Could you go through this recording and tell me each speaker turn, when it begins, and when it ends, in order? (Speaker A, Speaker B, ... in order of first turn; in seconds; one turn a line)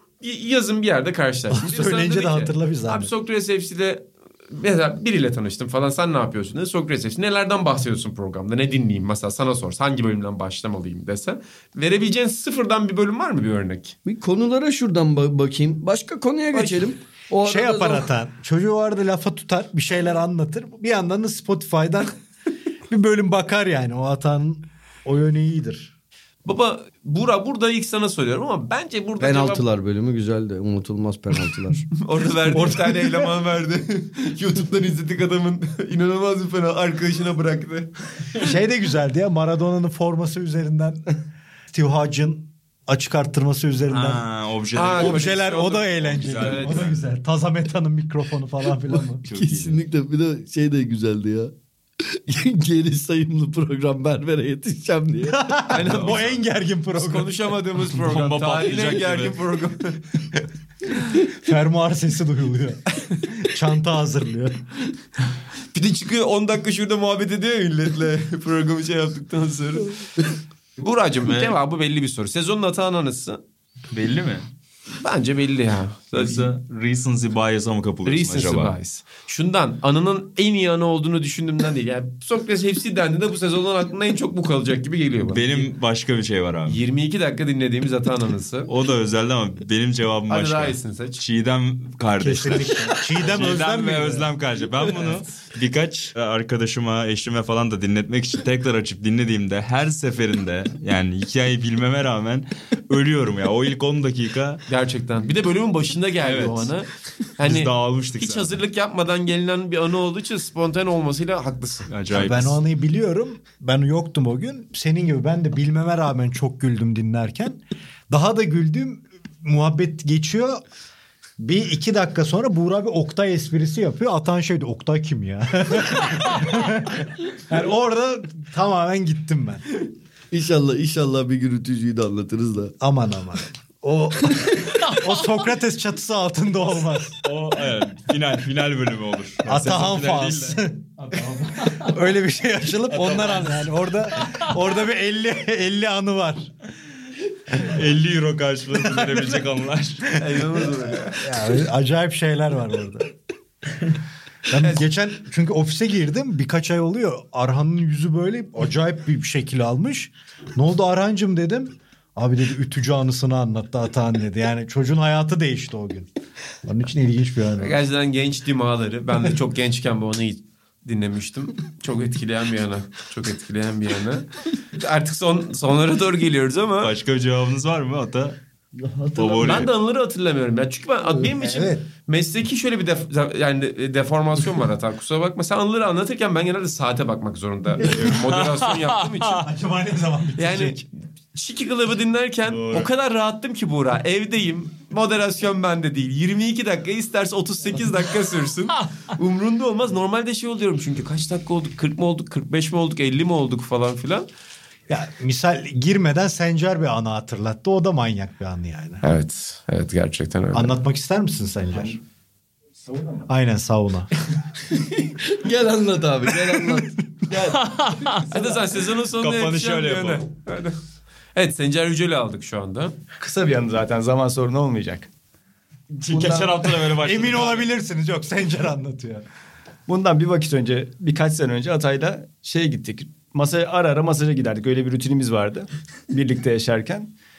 Speaker A: 0.2-13.9
Speaker B: 1.5-3.1
Speaker C: 14.1-18.1
Speaker A: 16.5-16.9
Speaker B: 17.4-22.2
Speaker B: 22.9-25.9
Speaker A: 26.4-29.6
Speaker C: 29.2-31.9
Speaker A: 32.0-38.5
Speaker B: 32.5-33.3
Speaker B: 38.4-41.2
Speaker B: 41.7-44.2
Speaker D: 43.9-45.5
Speaker A: 44.7-47.0
Speaker B: 44.9-49.2
Speaker D: 46.0-47.0
Speaker D: 49.2-49.8
Speaker C: 49.3-51.5
Speaker C: 52.1-55.6
Speaker B: 55.3-57.5
Speaker A: 55.7-56.4
Speaker D: 55.7-56.3
Speaker A: 56.9-60.2
Speaker D: 57.9-59.4
Speaker B: 61.2-64.7
Speaker A: 65.7-73.4
Speaker D: 71.2-71.6
Speaker D: 73.9-74.5
Speaker A: 75.0-76.5
Speaker D: 76.2-78.8
Speaker A: 78.0-85.7
Speaker D: 85.3-86.8
Speaker A: 86.7-88.7
Speaker D: 88.7-104.6
Speaker A: 90.3-91.2
Speaker B: 92.2-94.3
Speaker A: 104.7-111.9
Speaker D: 106.2-106.7
Speaker D: 107.4-108.6
Speaker D: 111.9-112.6
Speaker B: 112.1-120.6
Speaker B: 121.4-129.7
Speaker C: 130.3-132.8
Speaker B: 132.8-137.2
Speaker D: 137.2-140.6
Speaker B: 139.4-146.5
Speaker D: 141.6-141.8
Speaker D: 142.9-144.4
Speaker D: 147.5-150.2
Speaker B: 148.8-149.4
Speaker A: 150.2-151.2
Speaker B: 151.2-153.1
Speaker B: 154.5-166.1
Speaker B: 166.6-167.8
Speaker A: 167.6-176.9
Speaker D: 176.8-178.4
Speaker C: 178.8-179.7
Speaker D: 179.2-179.7
Speaker A: 179.4-189.5
Speaker B: 181.3-181.9
Speaker D: 187.8-189.1
Speaker B: 189.3-190.8
Speaker A: 190.4-204.3
Speaker D: 192.5-192.9
Speaker B: 204.9-209.0
Speaker A: 209.0-210.7
Speaker B: 210.5-212.0
Speaker E: 212.8-213.3
Speaker B: 213.3-214.1
Speaker C: 215.0-217.0
Speaker D: 217.3-220.2
Speaker A: 218.3-220.8
Speaker A: 221.3-223.0
Speaker E: 223.2-225.1
Speaker D: 225.9-227.7
Speaker E: 226.1-226.8
Speaker B: 227.0-229.2
Speaker E: 229.9-237.1